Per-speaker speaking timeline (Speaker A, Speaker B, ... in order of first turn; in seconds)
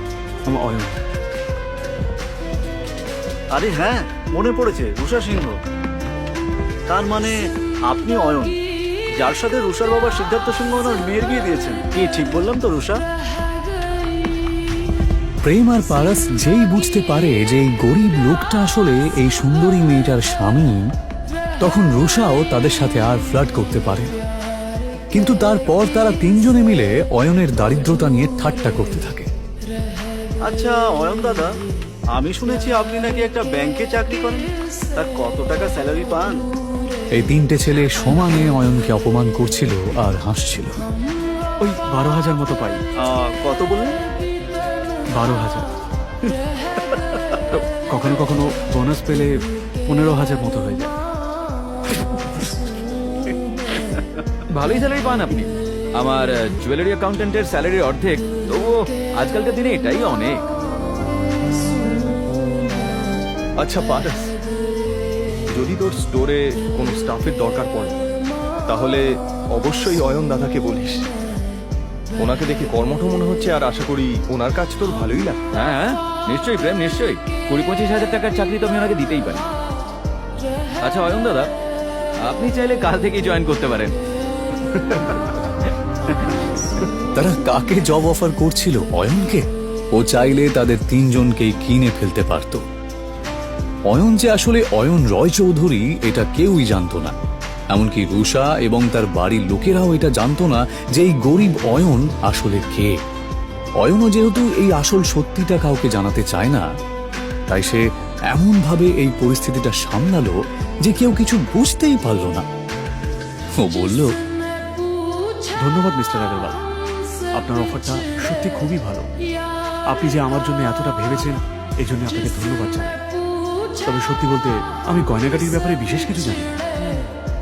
Speaker A: 0.4-1.0, 41.6-42.8, 45.1-45.7, 47.5-49.3, 49.9-50.9, 115.6-116.6, 117.3-119.1, 119.9-123.0, 123.8-126.5
Speaker B: 3.5-5.5, 6.9-7.3, 7.9-8.6, 9.2-13.0, 30.5-31.5, 32.1-36.4, 43.0-44.0
Speaker C: 15.4-20.8, 21.6-24.1, 25.1-29.3, 37.1-40.8, 87.2-92.6, 93.9-97.1, 97.7-103.0, 103.8-106.7, 107.5-112.5, 113.6-114.1
Speaker D: 54.5-60.4, 75.5-79.5, 80.8-81.5, 82.2-83.9
Speaker E: 63.6-64.3, 65.5-68.0, 68.7-71.1, 72.2-75.4